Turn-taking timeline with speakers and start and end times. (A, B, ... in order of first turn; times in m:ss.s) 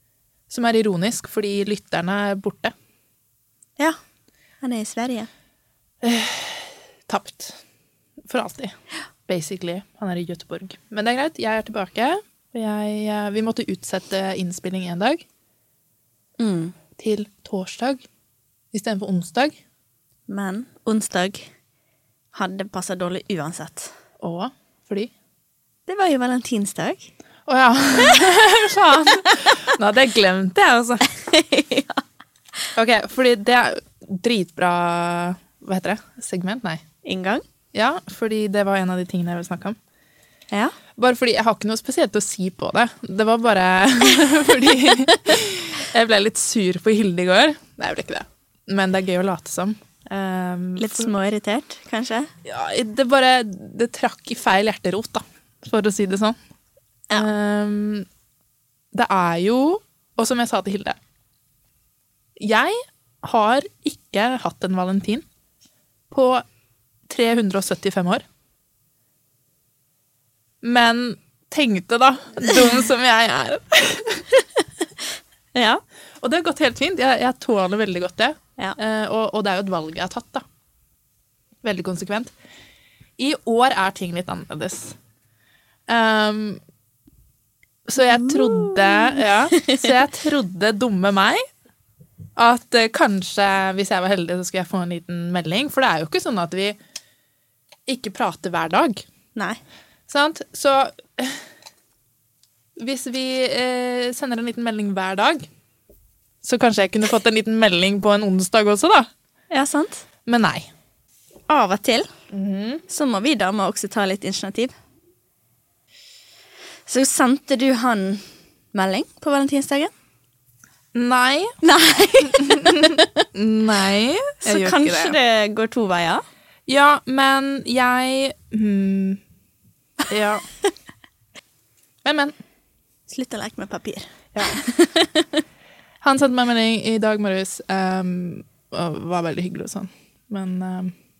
0:00.5-0:02.7 A
0:04.6-0:05.3 B
0:06.0-0:07.6 A
0:08.2-0:08.7 A
0:09.3-0:15.2 A
0:16.4-0:16.8 B
0:17.0-0:18.0 A
0:18.7-0:19.6 A
0:20.3-0:21.5 B
0:22.3-0:23.9 B
0:24.2-0:25.1 A
0:25.9-0:27.1 B
0:27.4-0:31.1 A
0:28.0-0:28.3 B
0:29.0-0:29.6 B
0:31.1-0:32.0 B
0:32.7-0:36.8 A
0:37.0-0:37.4 B
0:37.7-0:39.8 A
0:41.0-0:51.1 A
0:44.8-0:45.3 B
0:50.8-0:52.3 B
0:52.4-0:56.4 A
0:57.1-0:58.1 A
0:58.9-1:01.0 A
1:02.4-1:05.2 A
1:06.1-1:06.4 A
1:07.1-1:08.2 A
1:10.6-1:14.3 A
1:15.5-1:15.8 B
1:16.2-1:20.4 A
1:21.6-1:22.3 A
1:23.2-1:25.0 A
1:25.9-1:26.6 A
1:27.8-1:31.4 A
1:28.0-1:29.9 B
1:32.4-1:36.8 A
1:37.9-1:39.0 A
1:40.1-1:41.4 A
1:42.8-1:45.4 A
1:46.4-1:49.1 A
1:49.5-1:50.0 B
1:50.2-1:50.7 A
1:51.5-1:52.1 B
1:52.3-1:52.8 A
1:52.9-1:54.7 B
1:56.9-1:59.9 B
2:00.9-2:01.6 A
2:01.6-2:03.3 B
2:02.3-2:05.2 A
2:04.4-2:06.2 B
2:06.7-2:09.2 A
2:10.1-2:10.4 A
2:12.0-2:12.3 A
2:13.1-2:15.4 B
2:14.3-2:14.6 A
2:16.0-2:20.9 A